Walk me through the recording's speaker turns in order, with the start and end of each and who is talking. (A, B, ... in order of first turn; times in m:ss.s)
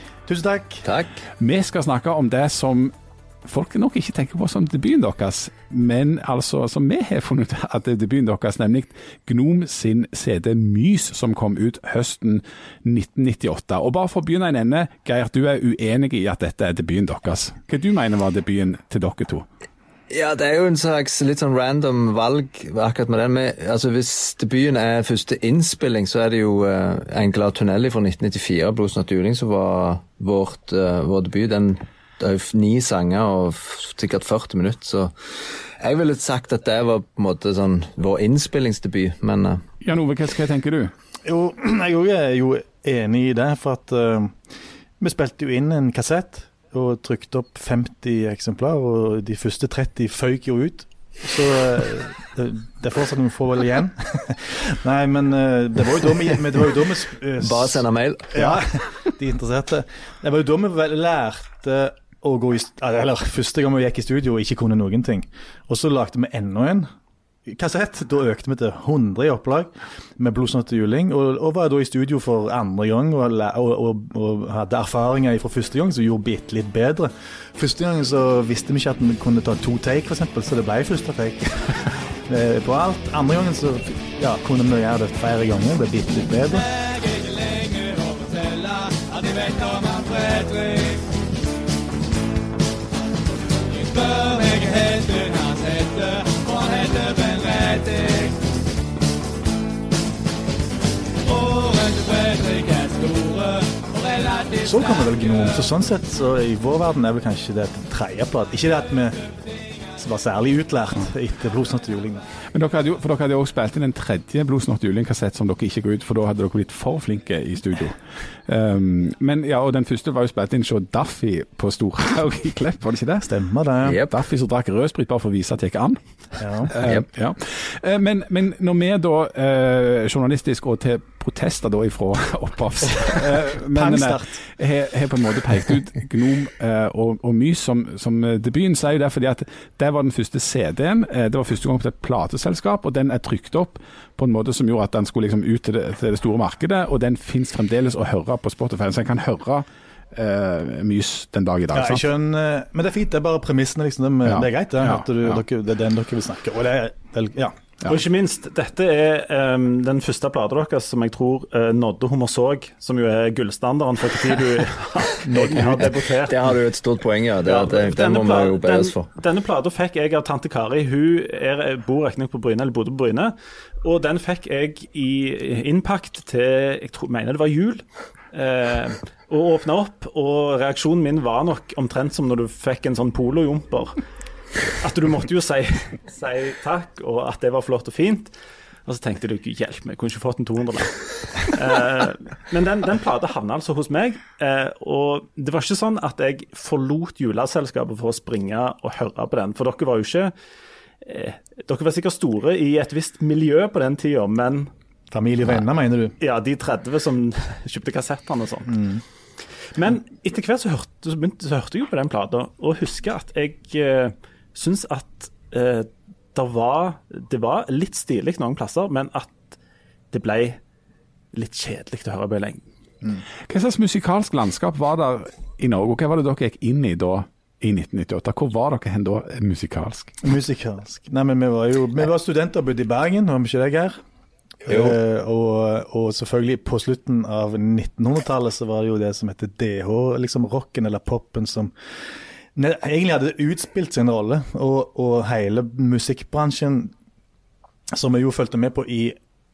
0:00.2-0:00.9 A
0:00.8-0:01.1 B
0:01.4-0:02.9 C
0:03.4-0:19.4 C
0:20.1-0:35.1 B
0:35.8-0:39.6 B
0:39.8-0:40.9 C
0:41.2-0:44.4 A
0:45.0-1:06.9 A
0:57.4-0:58.6 B
1:07.4-1:26.7 A
1:26.7-1:31.0 D
1:33.7-1:38.4 D
1:41.2-1:45.2 D
1:44.6-1:49.2 A
1:50.0-1:52.2 A
1:52.5-2:03.3 C
2:03.2-2:04.0 A
2:03.8-2:04.1 B
2:04.0-2:06.0 C
2:06.4-2:06.7 A
2:06.6-2:32.0 C
2:13.0-2:14.4 A
2:31.7-2:37.9 A
2:34.2-2:35.3 C
2:37.8-2:46.6 E
2:45.2-2:46.0 A
2:46.2-2:49.1 B
2:47.4-3:04.0 E
3:04.7-3:08.3 E
3:08.8-3:20.3 E
3:21.0-3:24.7 E
3:25.1-3:26.2 A
3:26.2-3:28.8 E
3:28.7-3:29.0 A
3:29.7-3:39.5 E
3:40.1-3:40.6 E
3:41.3-3:42.6 E
3:43.5-3:50.2 C
3:50.2-3:54.0 A
3:54.6-4:01.7 A
3:54.7-3:55.0 B
4:02.5-4:06.9 A
4:07.9-4:09.2 A